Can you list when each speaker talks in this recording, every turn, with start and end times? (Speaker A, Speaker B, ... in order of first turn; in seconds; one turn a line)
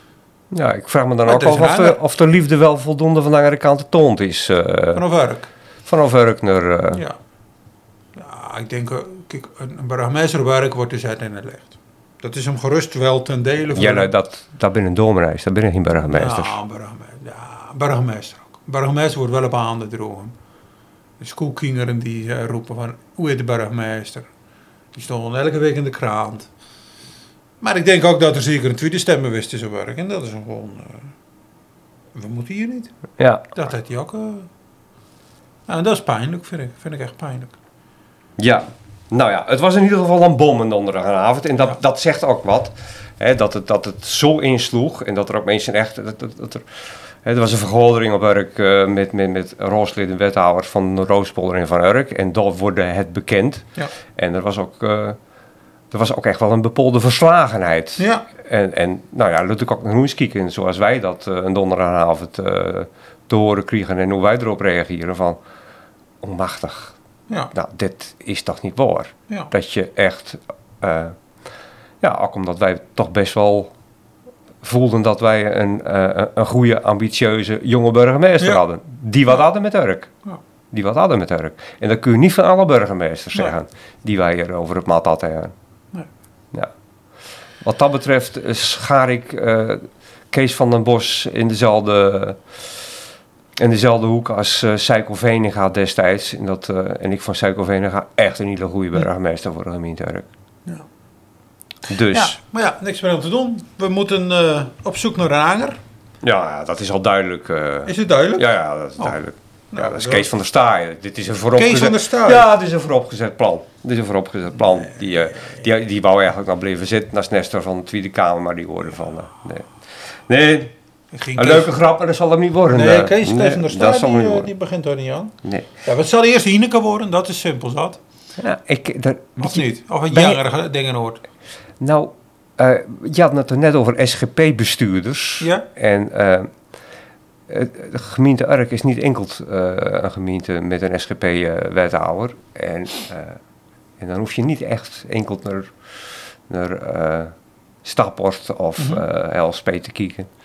Speaker A: 0.5-5.0
Speaker B: 1.2-2.0
Speaker B: 4.9-5.5
Speaker A: 5.8-7.0
Speaker B: 6.9-7.2
Speaker B: 8.2-14.1
Speaker A: 13.7-16.6
Speaker B: 16.1-20.3
Speaker B: 21.2-24.3
Speaker B: 24.9-26.5
Speaker B: 27.6-31.1
Speaker B: 32.1-32.9
Speaker A: 33.2-33.5
Speaker B: 33.5-34.5
Speaker B: 35.7-37.5
Speaker A: 38.4-46.6
Speaker A: 47.2-55.2
Speaker A: 55.9-65.4
Speaker B: 58.0-58.2
Speaker A: 66.2-66.9
Speaker A: 67.5-71.1
Speaker A: 72.0-73.7
Speaker A: 74.6-80.1
Speaker A: 80.7-85.5
Speaker A: 87.6-92.8
Speaker A: 93.6-100.2
Speaker A: 101.9-102.3
Speaker B: 102.1-105.8
Speaker A: 106.2-119.7
Speaker B: 107.8-109.2
Speaker B: 109.7-110.3
Speaker B: 111.5-112.5
Speaker A: 120.3-120.7
Speaker B: 121.1-121.7
Speaker A: 121.3-124.5
Speaker B: 122.7-128.0
Speaker A: 128.4-130.4
Speaker B: 129.4-131.2
Speaker A: 131.8-136.5
Speaker B: 135.4-135.7
Speaker A: 137.5-143.4
Speaker A: 144.0-145.7
Speaker A: 146.5-147.3
Speaker A: 147.8-150.3
Speaker B: 148.8-149.0